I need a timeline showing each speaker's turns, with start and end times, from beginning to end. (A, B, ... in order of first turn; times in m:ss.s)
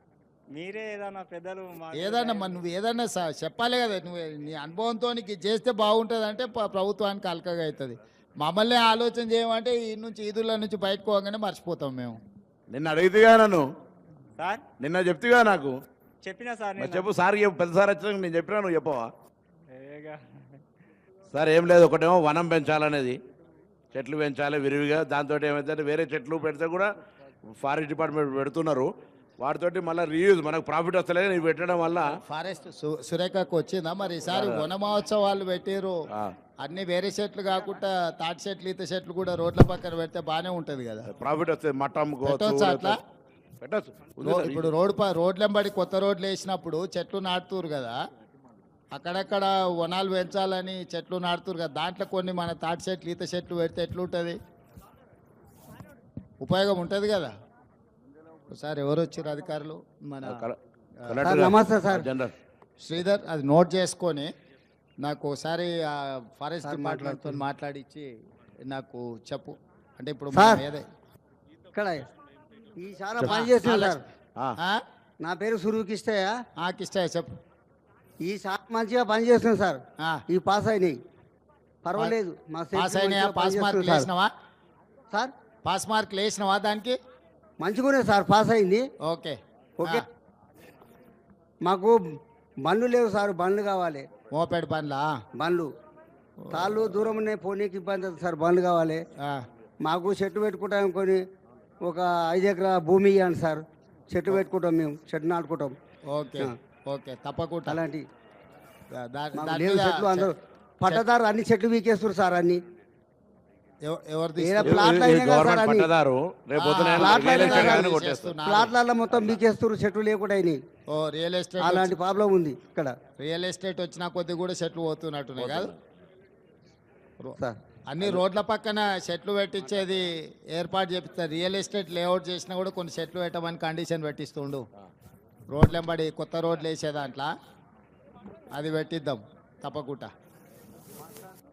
0:00.5-0:02.6 A
0:02.0-0:12.2 B
0:12.7-0:13.6 C
0:14.4-0:14.6 A
0:14.8-0:15.7 C
0:16.2-0:17.1 A
0:16.8-0:19.1 C
0:19.7-0:20.6 A
0:21.3-0:23.2 C
0:23.9-0:26.9 C
0:27.6-0:28.9 C
0:29.4-0:32.0 C
0:32.3-0:36.0 B
0:34.2-0:34.7 C
0:36.6-0:41.1 B
0:41.1-0:43.0 C
0:42.2-0:43.0 B
0:43.6-0:44.7 C
0:44.2-0:48.0 B
0:48.9-0:54.4 B
0:56.4-0:57.3 B
0:58.5-1:00.4 B
1:00.2-1:02.3 C
1:01.0-1:01.3 B
1:01.2-1:02.1 D
1:02.8-1:04.3 B
1:05.0-1:08.1 B
1:06.6-1:07.4 D
1:08.7-1:10.9 B
1:10.3-1:10.6 D
1:11.8-1:12.1 D
1:12.8-1:14.0 D
1:13.2-1:14.0 B
1:14.6-1:14.8 B
1:15.2-1:16.4 D
1:16.6-1:17.3 B
1:18.2-1:21.0 D
1:21.8-1:24.1 D
1:22.8-1:24.3 B
1:25.6-1:27.0 B
1:27.6-1:28.9 D
1:29.0-1:30.0 B
1:29.8-1:30.1 D
1:31.6-1:32.0 D
1:32.6-1:34.1 D
1:34.3-1:35.1 B
1:35.4-1:35.7 D
1:36.4-1:37.0 B
1:36.5-1:39.0 D
1:39.2-1:39.4 B
1:39.8-1:41.2 D
1:41.8-1:45.8 D
1:46.0-1:47.8 B
1:47.7-1:48.1 D
1:48.9-1:50.3 B
1:49.4-1:52.6 D
1:53.8-1:55.0 B
1:54.4-1:55.9 D
1:54.6-1:58.4 C
1:56.6-1:58.7 B
1:56.9-2:00.6 D
2:00.9-2:02.0 B
2:01.6-2:02.9 D
2:03.2-2:05.7 B
2:05.4-2:05.8 C
2:07.9-2:14.7 B
2:15.5-2:17.3 B
2:18.6-2:20.1 B